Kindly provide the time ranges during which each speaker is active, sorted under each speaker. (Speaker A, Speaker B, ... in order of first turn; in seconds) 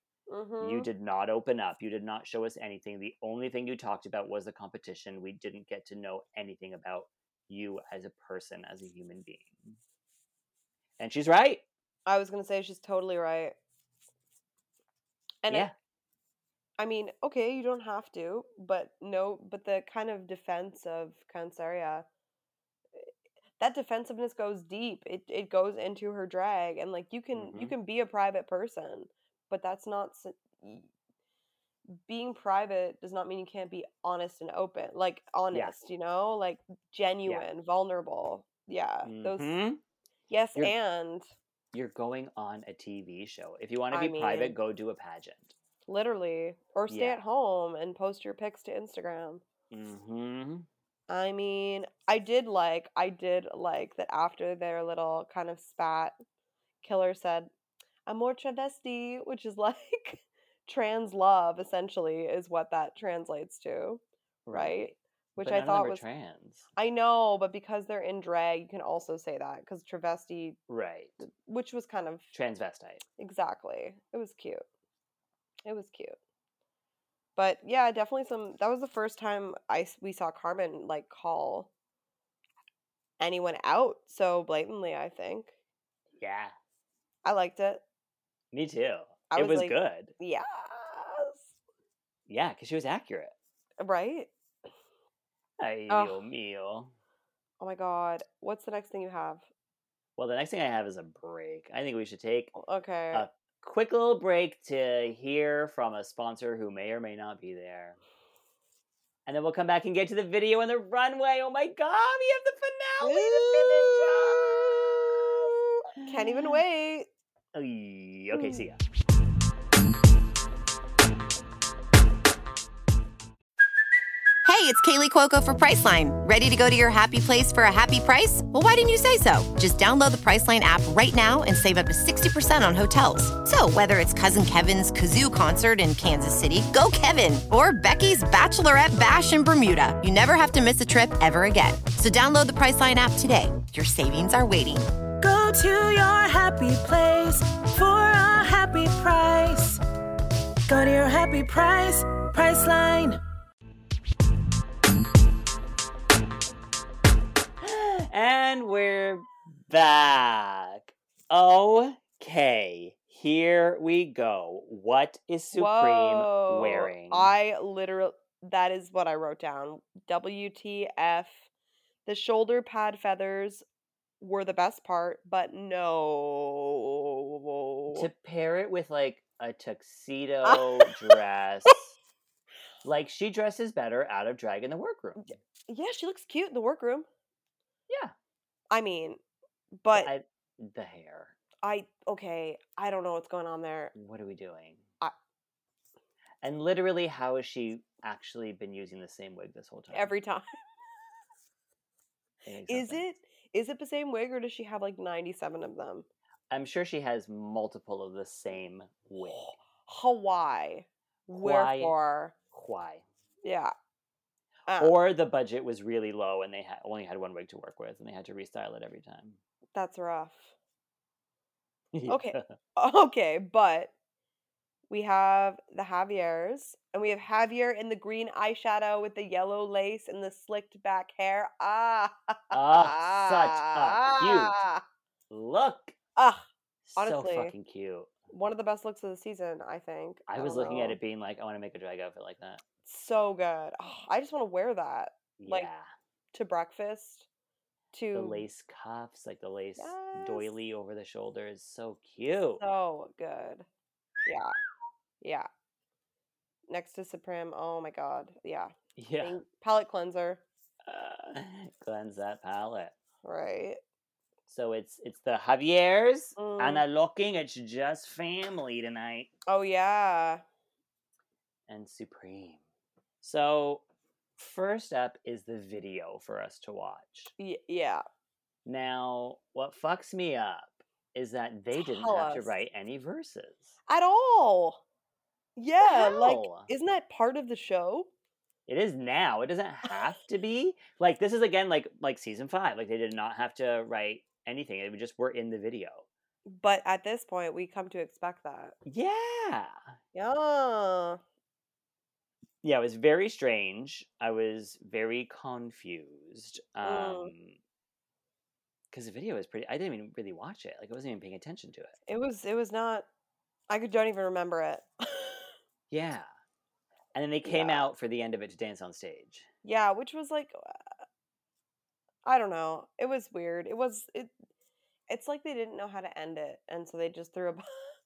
Speaker A: 0.3-0.9, 12.1-13.5, 15.4-15.7, 16.8-22.1, 23.6-30.9, 31.9-39.5, 40.3-41.2, 43.9-44.6, 45.9-49.4, 51.1-56.1, 56.8-57.5, 58.0-64.0, 64.5-66.0, 66.8-70.6, 71.2-72.3, 73.2-74.6, 75.6-76.2, 77.3-81.7, 83.2-85.5, 87.2-87.8, 89.3-91.5, 93.8-94.3, 95.9-96.2, 97.6-99.4, 102.5-103.2, 113.0-114.4, 115.9-117.1, 118.3-118.6, 165.5-171.4, 172.1-173.6, 174.2-178.1, 180.4-181.2, 185.2-187.1, 188.7-189.2, 189.8-190.1, 191.6-193.9, 199.9-200.6, 202.7-206.1, 209.2-212.3, 213.4-213.7, 214.7-214.9, 219.7-220.5, 222.1-223.9, 224.9-234.8, 236.2-237.5, 238.3-241.0, 242.8-245.7, 246.3-247.3, 247.9-248.5, 249.8-250.5, 252.6-253.7, 254.2-254.6, 255.2-255.5, 256.7-260.4, 263.2-263.8, 266.4-266.8, 269.5-270.4, 277.4-278.0, 281.7-282.5, 283.9-284.8, 285.6-288.1, 296.4-298.8, 300.1-301.2, 306.8-307.3, 312.1-313.1, 313.7-315.5, 317.4-317.9, 319.6-320.9, 322.2-324.3, 325.1-327.9
Speaker B: 0.6-9.8, 11.0-11.6, 27.3-27.7, 39.0-39.8, 41.7-45.5, 46.9-47.2, 49.7-50.7, 64.5-66.7, 70.7-71.2, 72.3-73.0, 86.2-86.5, 88.5-90.1, 92.3-93.3, 95.6-96.9, 100.2-102.5, 103.1-108.0, 109.2-115.4, 116.0-116.5, 117.5-118.8, 157.6-167.3, 177.9-181.9, 182.8-185.3, 187.9-188.1, 189.9-191.3, 193.9-194.8, 196.4-200.1, 202.4-203.0, 206.5-209.5, 211.3-211.9, 212.5-213.0, 214.8-219.4, 221.9-222.5, 232.5-234.6, 235.3-235.9, 236.8-238.1, 240.3-242.6, 245.4-245.9, 248.1-252.6, 259.0-259.4, 260.9-262.9, 264.5-269.3, 271.7-272.6, 273.2-273.8, 274.4-277.3, 278.6-283.7, 285.8-286.7, 288.7-296.1, 298.9-299.8, 302.6-307.6, 308.9-311.9, 315.9-316.3, 317.1-319.5
Speaker C: 124.4-144.9
Speaker D: 145.2-149.8, 150.7-153.2